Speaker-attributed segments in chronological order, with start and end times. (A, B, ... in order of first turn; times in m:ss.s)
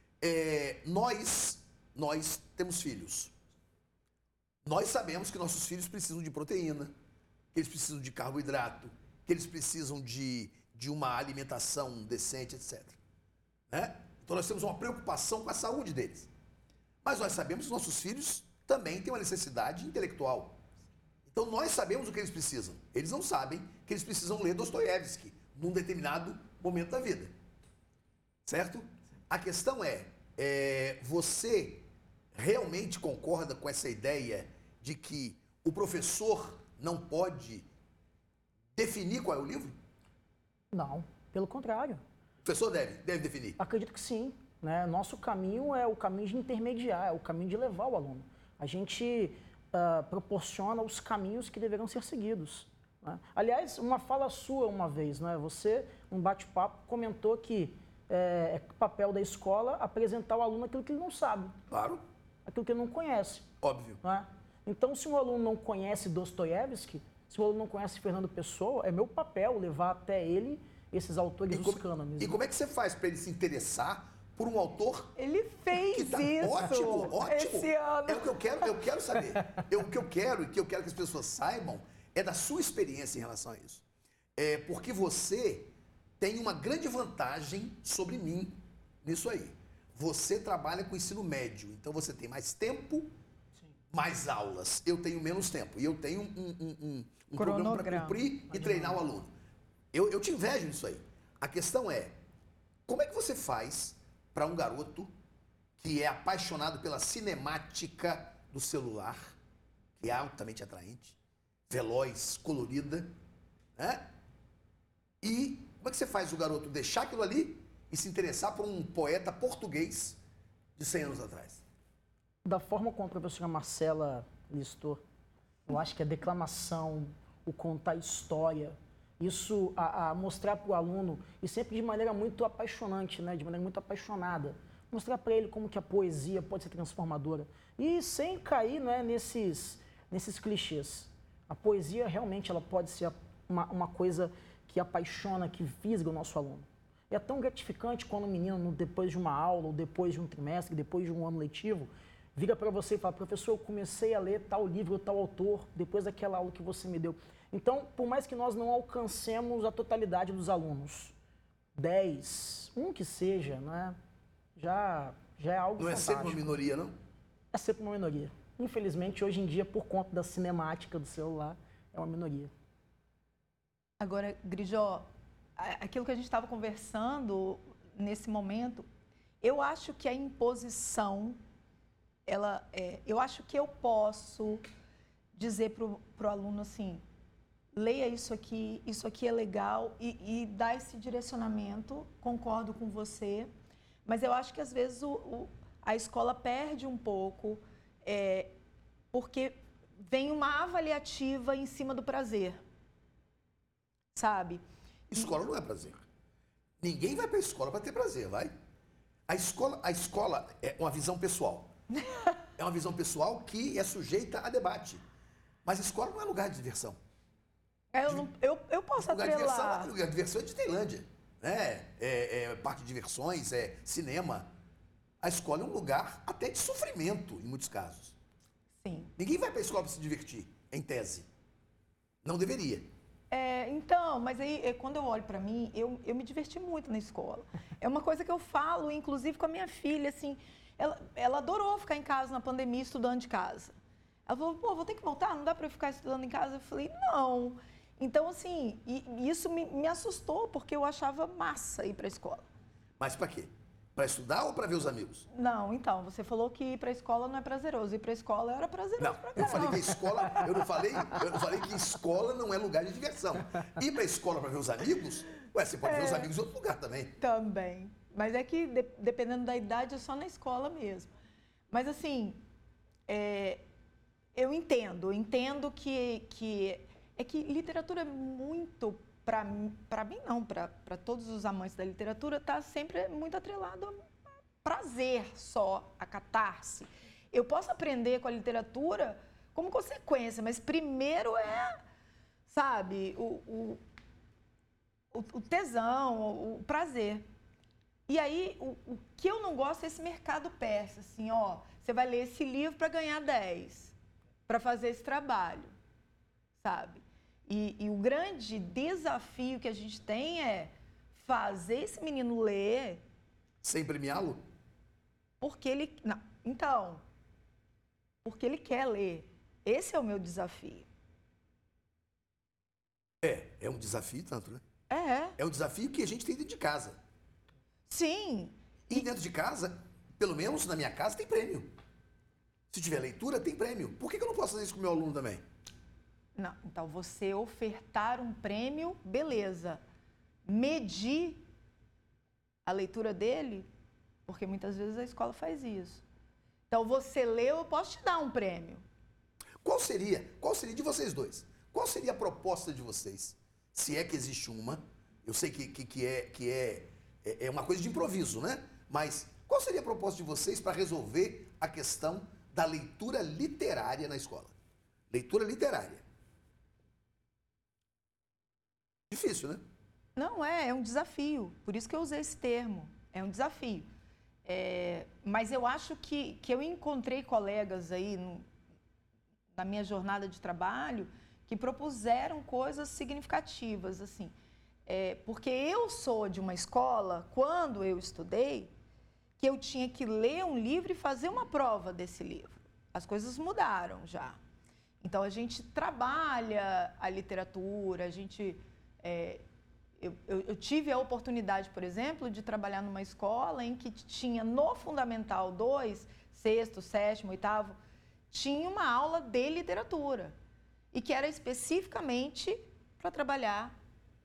0:00.2-0:03.3 A
0:04.6-0:06.9 A
0:07.5-0:13.0 A
0:13.7-0:16.3 A
0:17.0-0:20.6 A
0:21.3-0:27.3 A
0:28.4-0:37.7 A
0:38.8-0:39.8 A
0:40.7-0:42.0 B
0:42.4-0:43.6 A
0:43.6-1:01.5 B
1:01.7-1:02.0 A
1:02.4-1:03.5 B
1:03.6-1:04.0 A
1:04.0-1:12.4 B
1:11.5-1:15.1 A
1:15.2-1:18.8 C
1:15.7-1:23.8 A
1:24.4-1:33.1 A
1:33.9-1:39.3 A
1:37.4-1:38.2 C
1:38.5-1:38.9 B
1:39.9-1:42.2 A
1:42.9-1:45.1 A
1:45.8-1:49.4 A
1:50.0-1:51.2 A
1:51.7-1:53.1 A
1:53.8-1:54.0 A
1:55.2-2:00.2 A
2:00.8-2:01.6 A
2:02.4-2:05.0 B
2:05.7-2:41.1 B
2:41.7-2:44.0 B
2:44.6-2:46.6 B
2:45.8-2:46.9 A
2:47.5-2:52.5 B
2:54.0-2:58.9 C
2:59.4-3:01.4 C
3:02.2-3:04.6 C
3:05.3-3:07.0 C
3:07.7-3:13.5 C
3:14.0-3:18.5 C
3:19.1-3:22.6 C
3:24.1-3:24.6 C
3:25.1-3:26.0 A
3:26.8-3:28.5 A
3:29.3-3:31.7 A
3:31.9-3:32.4 C
3:32.6-3:35.0 A
3:35.6-3:37.0 A
3:37.9-3:39.9 C
3:39.0-3:44.5 A
3:45.2-3:48.2 A
3:48.8-3:49.1 C
3:49.2-3:51.3 A
3:52.2-3:52.9 A
3:53.3-4:03.7 C
4:04.2-4:12.4 C
4:13.0-4:15.3 A
4:15.3-4:20.5 C
4:19.0-4:27.2 A
4:25.8-4:26.3 C
4:27.2-4:31.1 C
4:31.7-4:32.4 C
4:33.1-4:33.6 C
4:34.3-4:44.1 C
4:44.6-4:51.8 C
4:52.5-4:53.8 C
4:55.1-4:57.2 C
4:58.1-5:03.9 C
5:04.5-5:05.7 C
5:06.6-5:13.0 C
5:13.6-5:14.4 A
5:15.4-5:17.0 C
5:18.2-5:20.9 C
5:23.2-5:24.6 A
5:24.9-5:25.4 C
5:25.4-5:27.0 A
5:27.9-5:29.0 C
5:28.9-5:31.7 A
5:32.7-5:35.4 A
5:36.4-5:39.8 C
5:40.4-5:41.4 C
5:42.6-5:43.7 C
5:44.3-5:46.0 C
5:46.7-5:48.8 C
5:49.6-6:04.5 A
6:05.1-6:06.0 A
6:09.1-6:09.6 A
6:10.2-6:13.9 C
6:14.4-6:18.5 C
6:19.5-6:24.3 C
6:24.8-6:28.7 C
6:29.4-6:34.4 C
6:35.0-6:39.4 C
6:40.0-6:47.8 C
6:48.3-6:50.3 C
6:50.9-6:53.8 C